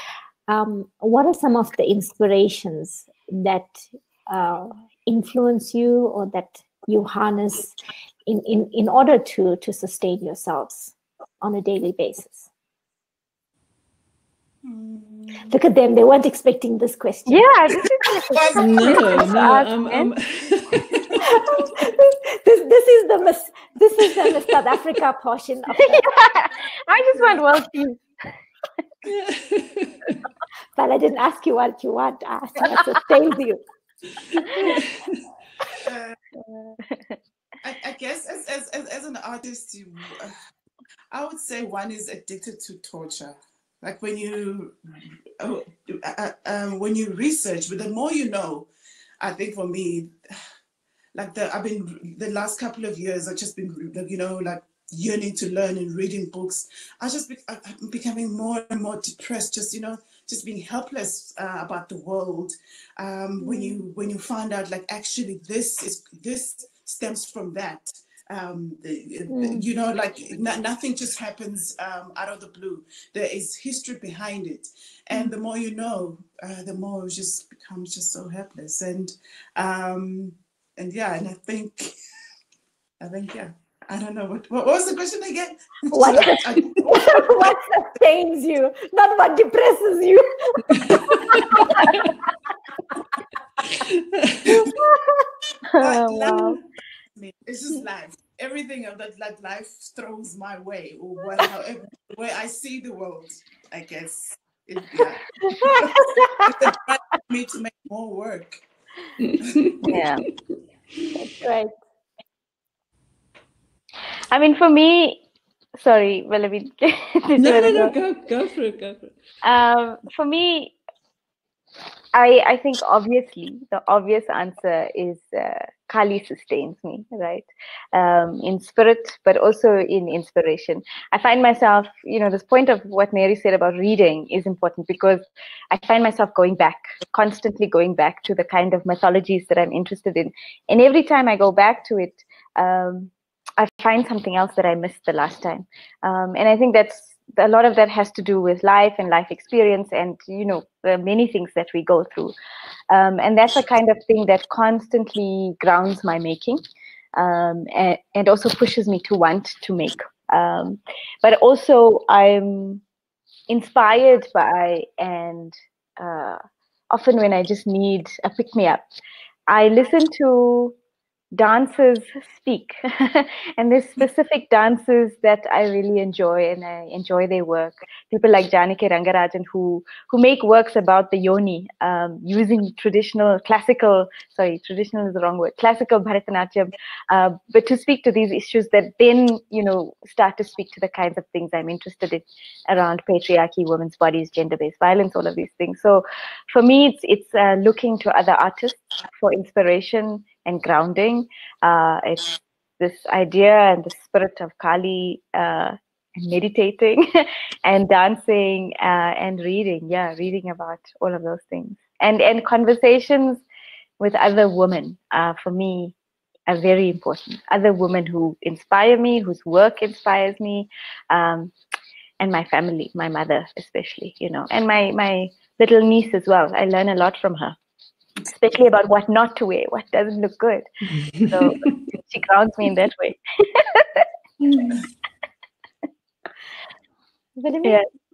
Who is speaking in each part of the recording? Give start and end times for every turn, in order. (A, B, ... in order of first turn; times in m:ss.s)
0:00.5-0:12.5 A
0:14.6-0:15.5 B
0:15.5-0:17.5 A
0:17.3-0:20.1 C
0:18.3-0:19.3 B
0:18.6-0:21.2 D
0:20.9-0:21.2 B
0:21.2-0:26.2 A
0:25.8-0:28.0 C
0:29.0-0:30.2 D
0:30.8-0:33.6 A
0:34.3-0:35.2 D
0:35.8-0:36.2 B
0:36.5-0:37.2 C
0:37.6-0:40.3 B
0:41.1-0:48.7 B
0:49.2-0:50.2 B
0:51.1-1:21.9 B
1:09.3-1:09.6 A
1:23.0-1:27.6 B
1:25.9-1:32.0 A
1:30.7-1:32.1 D
1:33.6-1:34.7 D
1:35.7-1:36.6 C
1:35.8-1:36.6 B
1:37.1-1:48.6 B
1:45.4-1:46.7 A
1:49.2-1:50.2 D
1:49.4-1:49.7 B
1:49.9-1:50.2 C
1:51.1-1:51.7 A
1:54.3-1:55.2 C
1:55.8-1:58.0 C
1:57.4-1:59.1 D
1:59.4-2:00.7 C
2:02.1-2:32.3 C
2:32.9-2:36.6 C
2:37.2-2:42.8 C
2:43.5-2:46.4 C
2:46.9-2:48.8 C
2:49.5-2:50.7 C
2:51.3-3:33.4 C
3:34.0-3:35.9 C
3:36.5-3:41.5 C
3:42.2-3:47.6 C
3:48.2-3:54.1 C
3:51.1-3:51.7 D
3:54.5-3:54.8 A
3:57.4-3:57.8 A